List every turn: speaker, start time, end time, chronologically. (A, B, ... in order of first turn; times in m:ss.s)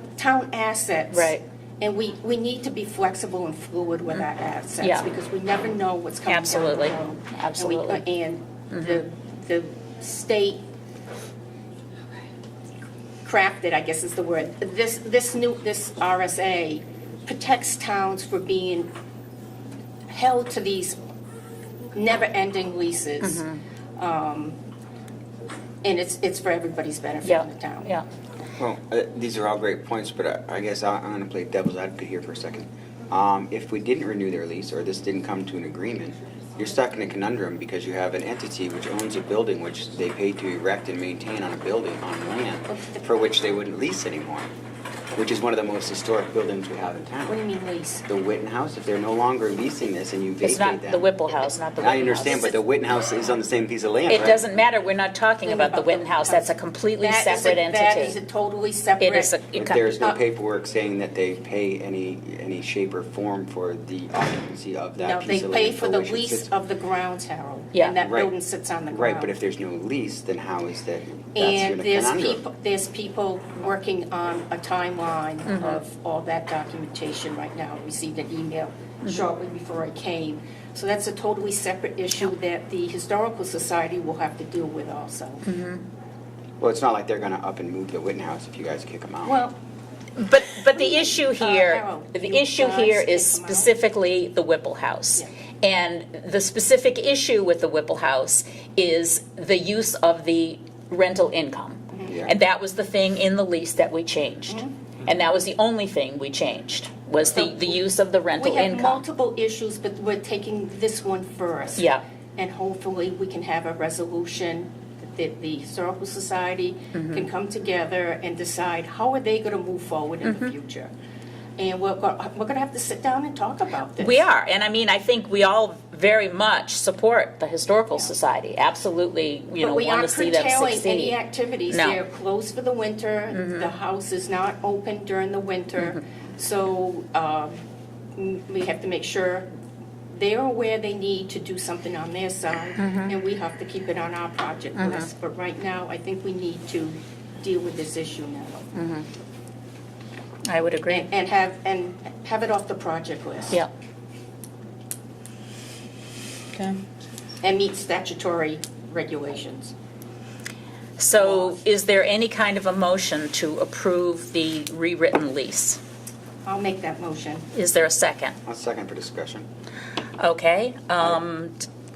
0:00.2-0:10.6 A
0:01.1-0:01.4 B
0:06.3-0:08.0 B
0:08.8-0:09.0 B
0:13.2-0:18.9 A
0:20.1-0:21.0 A
0:21.9-0:23.4 A
0:23.2-0:23.6 B
0:24.0-0:24.6 A
0:25.8-0:27.9 A
0:27.2-0:28.0 B
0:28.6-0:44.5 C
0:42.7-0:43.1 A
0:45.2-0:47.4 C
0:47.3-0:48.1 A
0:48.1-0:51.1 C
0:50.4-0:52.6 B
0:51.8-0:54.4 C
0:54.1-0:58.2 B
0:55.4-0:59.3 A
0:59.0-0:59.8 B
0:59.6-1:06.5 C
1:05.0-1:09.3 A
1:08.0-1:08.3 C
1:08.9-1:12.4 C
1:11.4-1:25.5 A
1:15.5-1:15.8 B
1:25.5-1:25.8 B
1:26.6-1:29.4 C
1:29.2-1:29.6 A
1:30.2-1:49.0 B
1:30.7-1:33.7 A
1:42.1-1:42.3 C
1:47.3-1:47.8 A
1:48.4-2:00.9 A
1:51.8-1:52.0 B
1:56.9-1:57.3 B
2:00.2-2:00.5 B
2:01.6-2:04.2 A
2:04.0-2:11.2 B
2:09.6-2:17.6 A
2:11.7-2:12.0 B
2:13.4-2:13.7 B
2:18.2-2:19.5 A
2:20.1-2:28.7 A
2:22.8-2:23.2 B
2:24.8-2:25.1 B
2:28.7-2:29.1 B
2:30.5-2:31.1 B
2:30.9-2:33.6 A
2:37.4-2:39.7 A
2:41.0-2:45.8 B
2:41.2-2:41.6 A
2:46.4-2:47.5 A
2:47.5-2:48.4 B
2:48.5-2:49.5 C
2:50.2-2:51.7 B